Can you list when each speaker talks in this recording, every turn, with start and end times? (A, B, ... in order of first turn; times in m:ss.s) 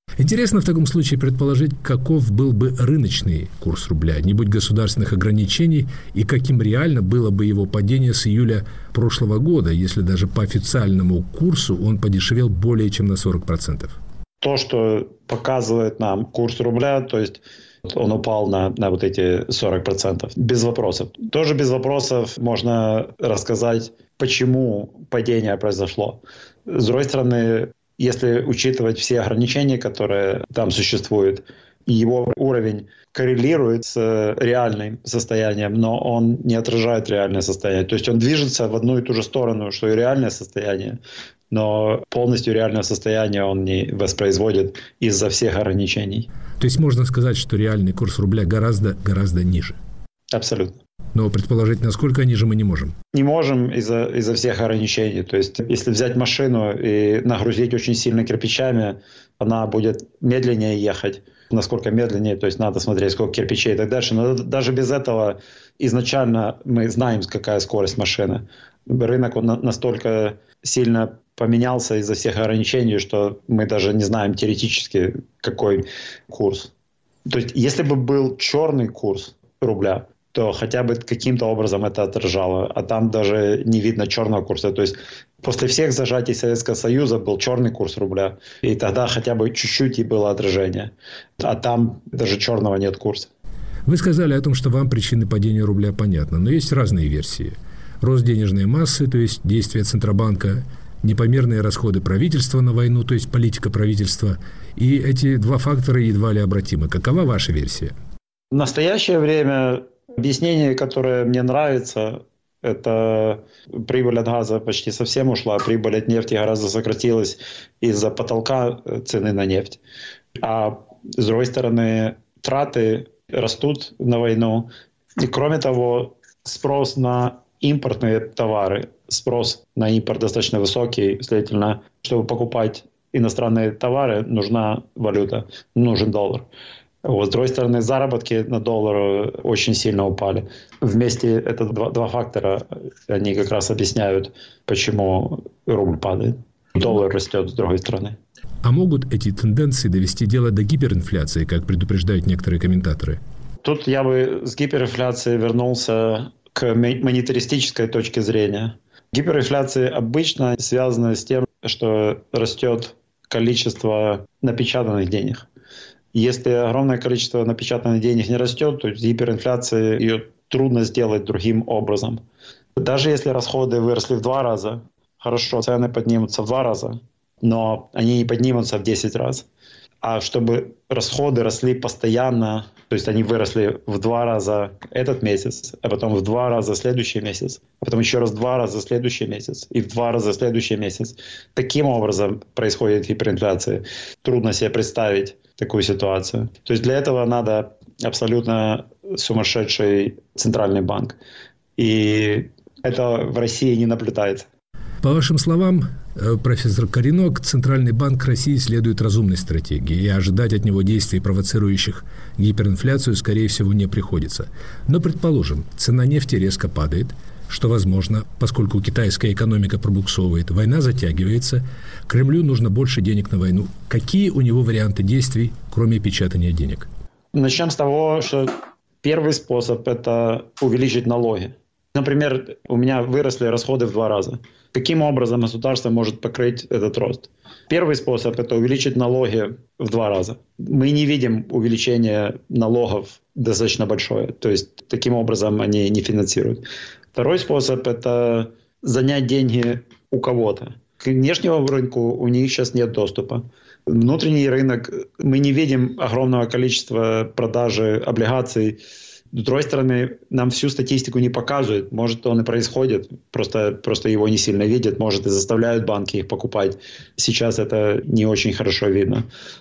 0:00.2-0:14.0 A
0:14.4-0:46.3 B
0:46.6-0:49.8 A
0:50.3-0:50.8 B
0:51.1-0:52.9 A
0:53.1-1:16.7 B
1:17.2-1:33.3 B
1:33.8-1:47.9 A
1:48.5-1:59.8 B
2:00.4-2:16.5 B
2:17.0-2:28.2 B
2:28.6-2:33.2 A
2:33.6-2:45.4 B
2:46.1-2:52.2 B
2:52.8-2:59.4 B
3:00.0-3:21.2 B
3:21.8-3:24.4 B
3:25.0-3:46.9 A
3:47.3-4:18.8 B
4:19.3-4:29.3 B